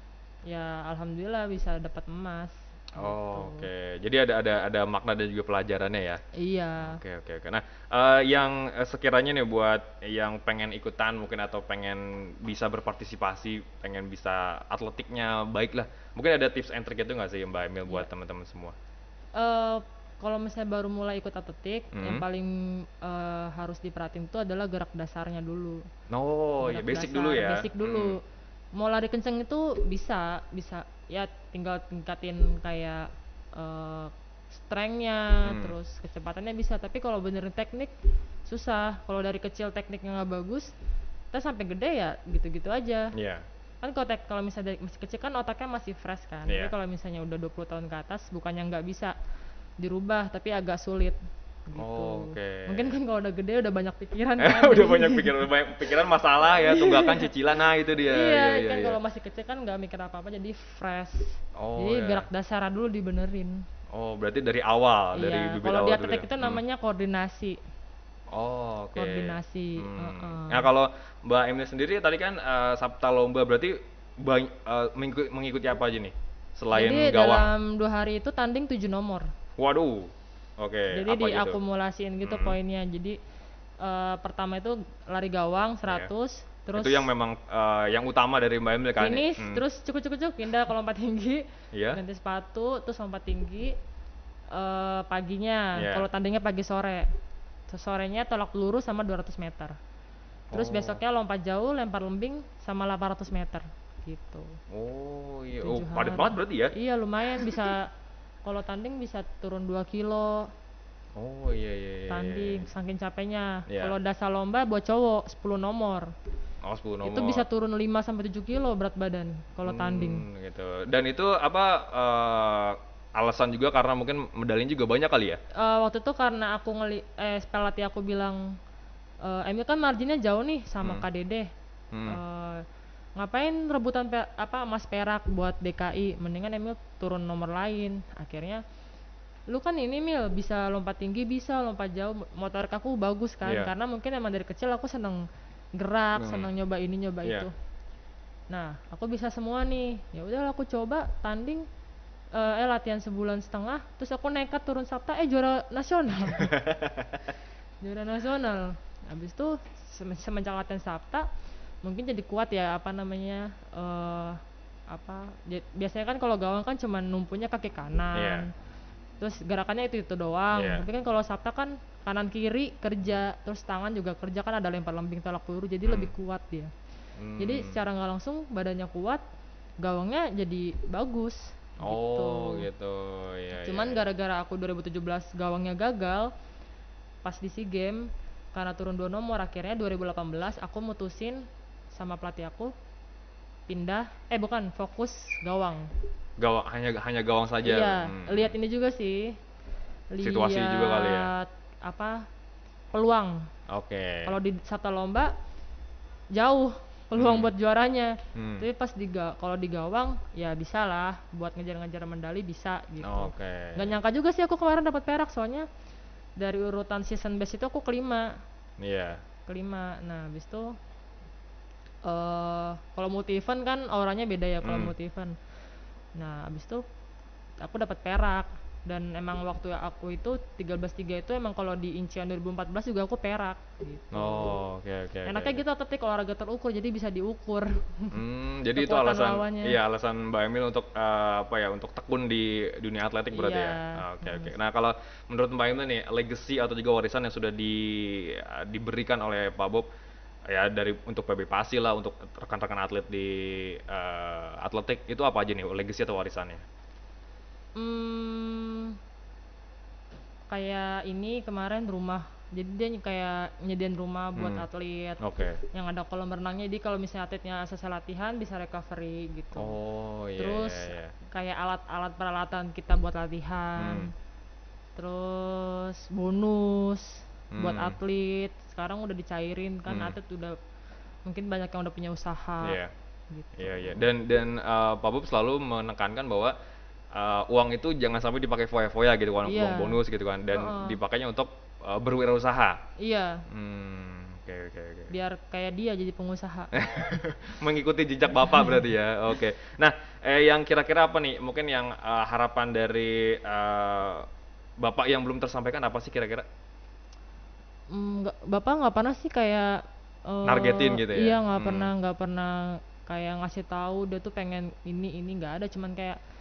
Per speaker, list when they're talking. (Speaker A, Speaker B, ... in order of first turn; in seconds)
Speaker A: 0.5-3.7, 6.3-7.0, 19.3-25.8, 26.6-28.2, 28.8-37.9, 38.5-40.7, 41.3-43.1, 43.8-49.1, 49.8-55.4, 56.6-57.3, 58.0-63.6, 65.1-67.6, 68.9-70.7, 76.7-79.3, 80.9-83.2, 83.8-87.1, 89.0-93.7, 94.5-97.1, 97.7-99.8, 100.5-104.5, 105.6-107.9, 108.4-110.5, 112.1-116.1, 117.0-120.2, 125.5-128.5, 129.2-131.5, 132.1-132.6, 133.2-138.6, 139.5-145.2, 145.8-147.5, 148.5-151.6, 152.3-156.6, 157.8-161.3, 161.8-168.5, 169.2-176.7, 177.4-179.2, 179.8-182.7, 183.6-186.3, 187.2-192.7, 193.7-195.9, 197.6-199.3, 200.1-202.2, 202.9-203.5, 204.2-205.3, 206.3-215.7, 216.4-218.3, 219.5-220.7, 222.1-225.3, 226.2-226.8, 227.6-234.6, 235.2-238.2, 238.7-239.8, 243.3-244.5, 257.8-259.0, 260.5-269.7, 270.4-274.1, 274.9-280.6, 281.2-282.8, 283.3-284.1, 289.4-290.0, 290.5-291.0, 293.0-293.4, 295.1-296.7, 298.5-298.8, 307.9-316.2
Speaker B: 2.9-6.2, 6.8-18.7, 21.9-22.2, 26.1-28.2, 35.4-35.8, 43.1-43.4, 46.5-46.7, 51.8-52.9, 54.4-59.0, 61.6-62.3, 63.9-66.6, 68.3-77.5, 79.6-81.6, 82.2-82.6, 86.8-89.6, 91.7-92.0, 95.8-96.0, 100.5-101.0, 104.7-106.7, 111.2-112.7, 113.7-113.9, 116.6-117.5, 119.6-125.4, 131.9-132.2, 143.4-143.7, 146.2-146.5, 156.3-157.3, 168.1-168.5, 170.5-170.8, 175.8-176.1, 177.2-177.8, 181.8-184.0, 196.4-198.5, 200.2-201.3, 203.7-204.3, 207.2-207.5, 208.3-208.7, 213.0-213.9, 218.8-219.2, 224.6-224.9, 234.1-235.6, 238.1-249.9, 250.5-256.6, 264.4-264.6, 265.2-265.6, 269.6-271.1, 273.8-274.1, 277.5-278.0, 279.9-280.1, 282.6-282.9, 283.6-286.5, 287.1-292.8, 293.5-295.1, 296.7-304.3, 304.8-306.4, 310.4-311.9